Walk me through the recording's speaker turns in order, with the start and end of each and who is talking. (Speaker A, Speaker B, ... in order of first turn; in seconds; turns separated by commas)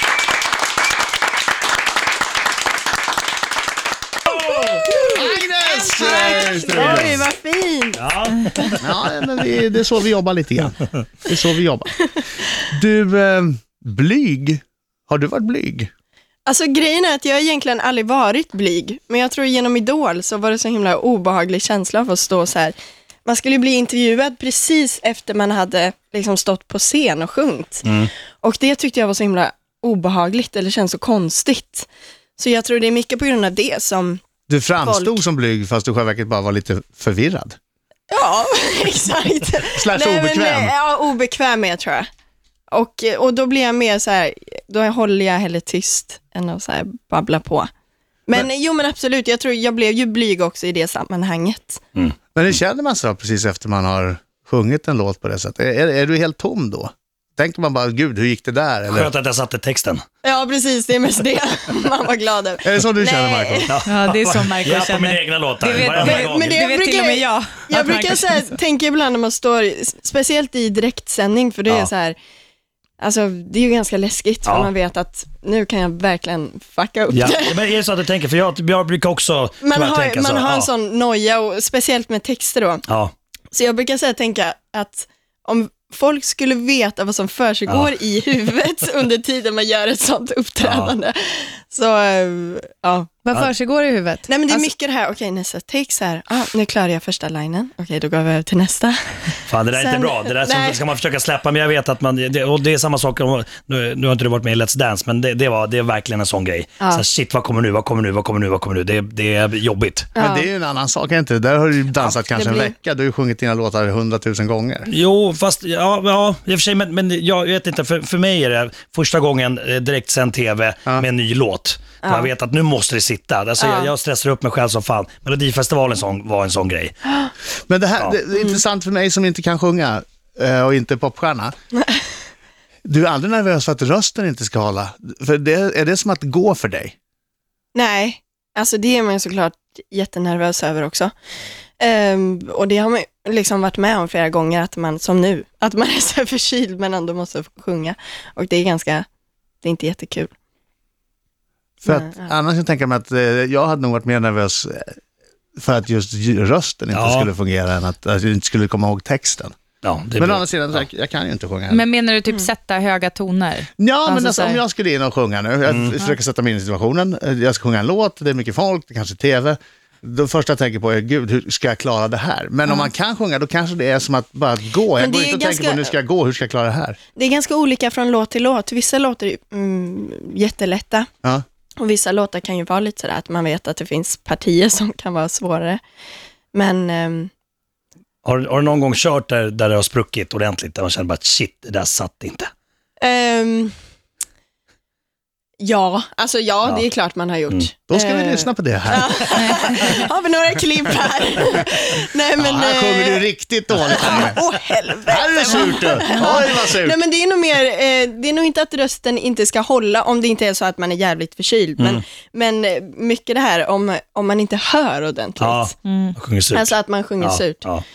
Speaker A: 4.3-5.0, Speaker B: 4.9-5.2, Speaker C: 4.9-7.2, Speaker B: 5.8-8.0, Speaker A: 6.7-7.1, Speaker A: 8.0-8.9, Speaker C: 8.8-11.9, Speaker C: 12.7-15.9, Speaker B: 16.5-34.2, Speaker A: 27.8-28.1, Speaker C: 34.5-37.6, Speaker B: 34.8-35.2, Speaker B: 38.1-42.1, Speaker C: 39.8-40.7, Speaker B: 42.7-47.7, Speaker B: 48.3-51.8, Speaker C: 52.4-59.1, Speaker A: 58.9-60.0, Speaker B: 60.2-63.8, Speaker C: 62.6-63.7, Speaker A: 63.7-66.6, Speaker D: 63.8-68.6, Speaker B: 66.1-72.2, Speaker B: 73.0-77.7, Speaker A: 74.5-74.7, Speaker A: 77.1-80.7, Speaker B: 79.6-82.9, Speaker B: 83.5-93.2, Speaker A: 90.6-90.9, Speaker D: 93.3-94.7, Speaker B: 94.3-100.8, Speaker A: 99.5-110.1, Speaker B: 106.8-107.0, Speaker B: 110.2-110.5, Speaker C: 110.2-114.9, Speaker B: 111.9-112.8, Speaker A: 114.9-126.9, Speaker B: 122.0-122.3, Speaker B: 123.6-123.9, Speaker B: 127.0-127.3, Speaker C: 127.7-131.5, Speaker B: 128.3-128.6, Speaker B: 131.8-132.0, Speaker C: 132.8-136.9, Speaker B: 137.7-141.1, Speaker B: 141.8-149.1, Speaker B: 149.6-150.3, Speaker C: 151.8-155.0, Speaker B: 151.8-152.3, Speaker C: 155.6-159.6, Speaker A: 156.9-157.3, Speaker A: 159.8-160.8, Speaker C: 160.2-161.9, Speaker D: 161.7-164.6, Speaker C: 163.8-177.0, Speaker A: 165.7-165.9, Speaker B: 175.0-176.0, Speaker B: 177.2-181.1, Speaker B: 181.8-185.8, Speaker B: 186.5-187.3, Speaker A: 188.2-192.5, Speaker B: 193.0-193.7, Speaker B: 195.6-203.3, Speaker C: 197.9-199.3, Speaker D: 199.4-200.0, Speaker C: 202.4-204.4, Speaker B: 203.8-215.7, Speaker C: 205.1-207.0, Speaker A: 215.4-217.8, Speaker D: 215.8-216.2, Speaker B: 216.5-217.7